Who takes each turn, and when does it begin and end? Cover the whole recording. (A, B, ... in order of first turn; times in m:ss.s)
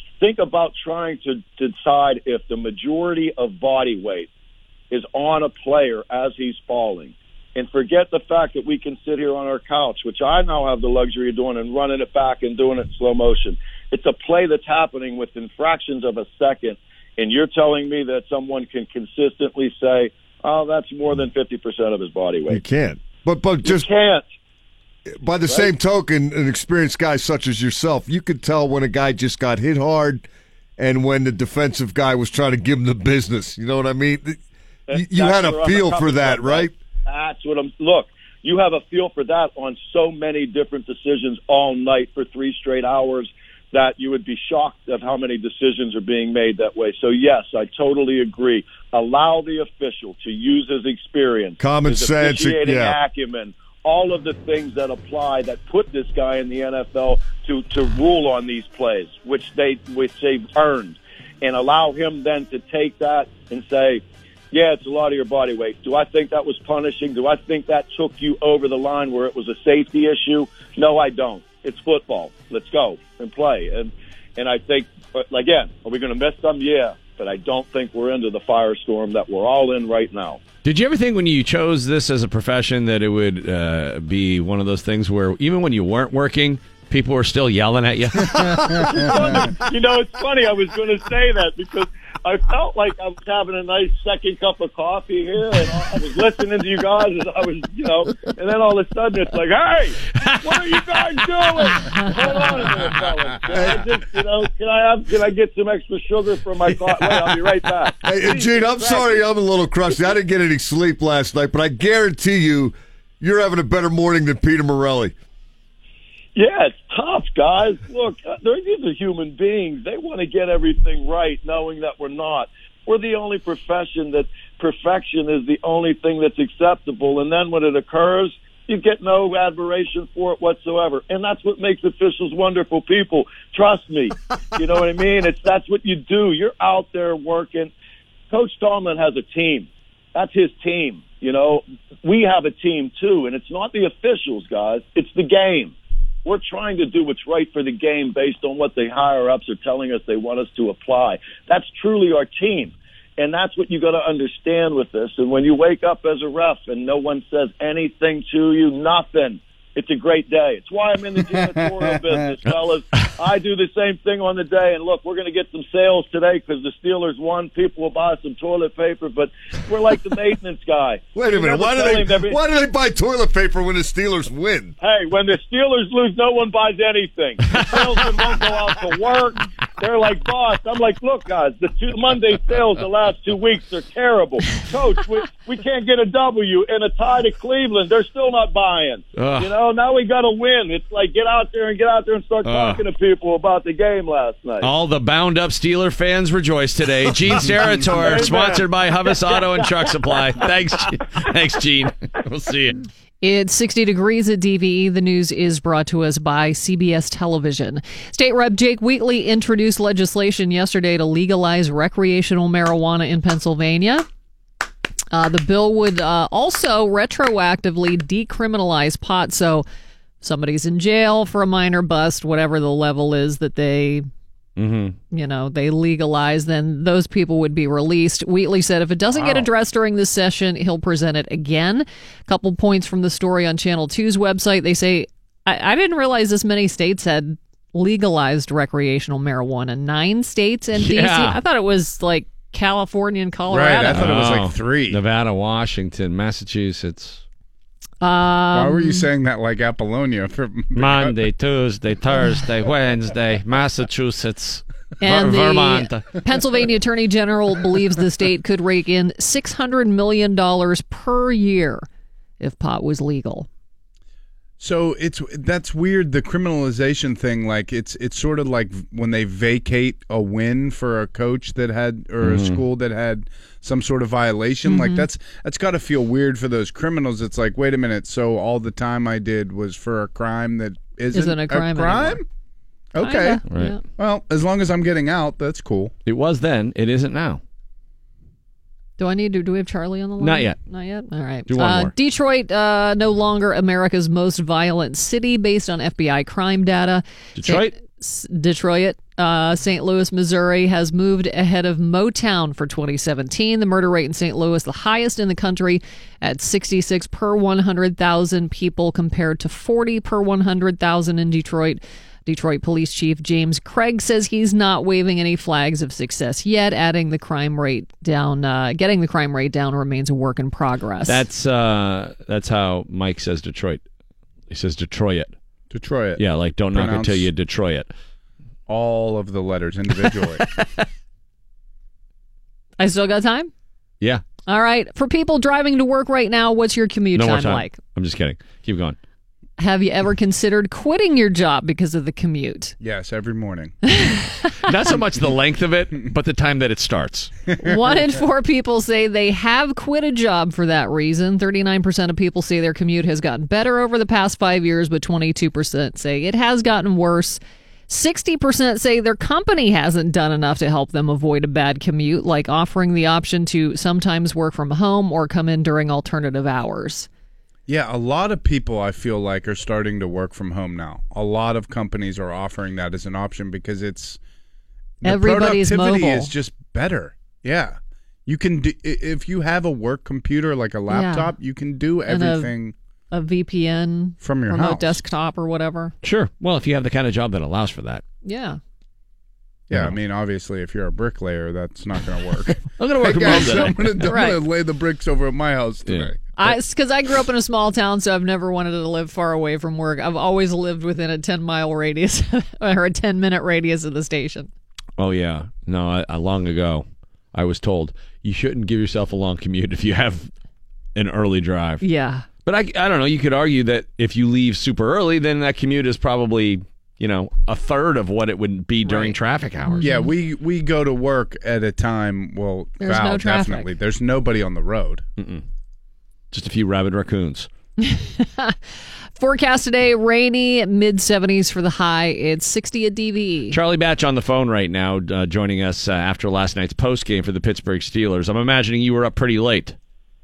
0:00.2-0:04.3 A
0:04.9-0:22.6 A
0:22.5-0:23.9 B
0:23.6-0:24.3 A
0:25.1-0:30.3 B
0:25.5-0:25.8 A
0:30.8-0:34.4 B
0:34.9-1:20.4 A
0:35.0-0:36.7 B
0:51.6-0:53.0 B
1:20.6-1:29.0 C
1:28.2-1:29.5 D
1:28.9-1:49.3 A
1:40.2-1:40.8 C
1:41.6-1:42.3 C
1:43.5-1:43.8 B
1:48.0-1:55.2 B
1:56.4-2:17.7 A
2:18.3-2:25.7 A
2:26.2-2:52.4 A
2:41.4-2:42.1 D
2:51.2-2:54.7 B
2:54.8-3:14.7 A
3:09.2-3:09.5 C
3:12.4-3:12.8 C
3:14.6-3:22.8 C
3:17.7-3:20.5 A
3:18.0-3:18.6 B
3:23.2-3:34.1 E
3:35.1-3:39.6 E
3:40.2-3:44.1 E
3:44.6-3:45.0 C
3:45.1-4:04.2 E
3:49.1-3:49.5 D
4:00.8-4:01.4 C
4:03.5-4:05.0 D
4:03.9-4:07.2 C
4:08.0-4:09.1 E
4:08.5-4:11.1 D
4:10.8-4:16.1 C
4:15.0-4:21.8 E
4:22.4-4:23.5 E
4:24.6-4:42.3 D
4:32.2-4:32.6 C
4:34.7-4:35.1 E
4:41.1-4:42.2 E
4:42.9-4:45.9 D
4:43.0-4:43.8 E
4:43.5-4:43.8 C
4:46.0-4:47.4 C
4:49.0-5:21.2 E
4:50.2-4:50.6 C
4:51.5-4:51.9 C
4:57.4-4:57.7 C
5:21.1-5:23.8 C
5:24.5-5:25.3 C
5:25.7-5:26.2 D
5:26.2-5:27.9 C
5:26.7-5:27.3 D
5:28.7-5:30.4 D
5:32.8-5:33.5 E
5:34.5-5:37.8 E
5:37.1-5:39.0 C
5:39.6-5:42.8 E
5:42.8-5:43.8 D
5:43.9-5:44.5 E
5:44.6-5:47.3 C
5:47.6-6:07.1 E
6:07.7-6:14.2 D
6:15.0-6:22.7 D
6:15.0-6:16.3 E
6:20.9-6:21.3 E
6:22.1-6:22.5 E
6:23.1-6:25.9 E
6:24.2-6:25.0 D
6:26.0-6:28.0 C
6:28.2-6:28.6 E
6:29.7-6:36.2 D
6:32.8-6:34.0 C
6:34.0-6:34.4 E
6:35.9-6:36.1 C
6:36.4-6:44.5 E
6:45.0-6:50.3 C
6:51.0-6:51.8 C
6:51.8-6:52.3 E
6:52.4-6:59.8 C
6:58.9-6:59.1 D
6:59.6-7:00.1 E
6:59.8-7:05.0 D
7:02.8-7:03.7 E
7:05.2-7:05.4 C
7:06.3-7:07.5 C
7:07.8-7:08.6 E
7:09.2-7:13.6 E
7:13.5-7:19.8 C